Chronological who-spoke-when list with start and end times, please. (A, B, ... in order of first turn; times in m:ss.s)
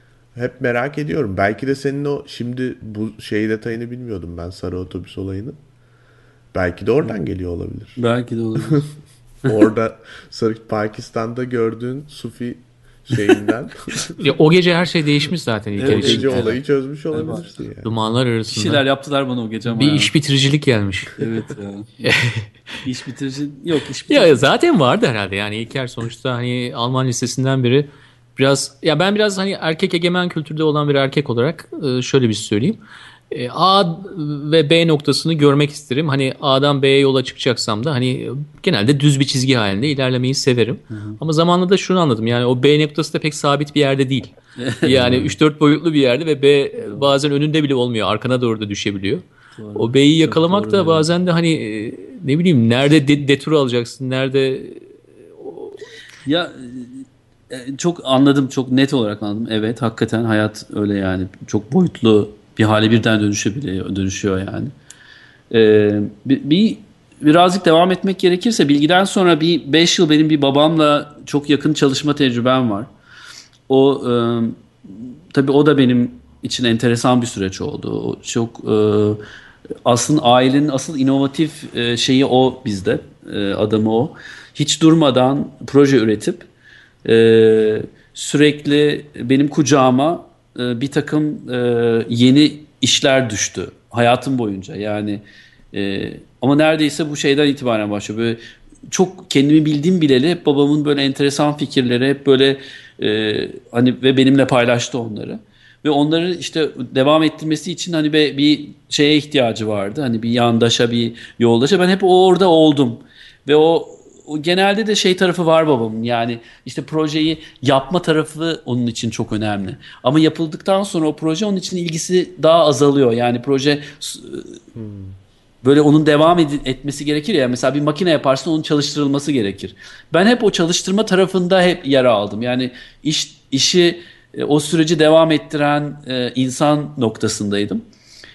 0:00.3-0:05.6 A
0:06.5-0:08.0 A
0:08.0-0:08.9 B
0:09.4-0:14.1 A
0:14.1-0:16.5 C
0:15.8-0:16.6 B
0:15.9-0:17.9 A
0:17.1-0:17.5 B
0:17.8-0:18.8 C
0:18.5-0:20.1 B
0:19.8-0:21.3 C
0:21.2-0:21.9 B
0:22.0-0:22.5 C
0:22.8-0:24.4 B
0:24.1-0:32.8 C
0:33.3-0:44.3 C
0:40.9-0:41.2 B
0:44.6-0:45.3 B
0:44.8-0:49.2 C
0:44.9-0:45.3 A
0:46.8-0:47.1 B
0:49.6-0:51.1 B
0:49.8-0:55.7 C
0:56.2-1:04.7 B
1:05.5-1:12.9 B
1:13.7-1:19.2 B
1:19.8-1:26.5 B
1:27.0-1:38.4 B
1:38.9-2:04.6 B
2:04.7-2:05.2 A
2:05.6-2:17.8 B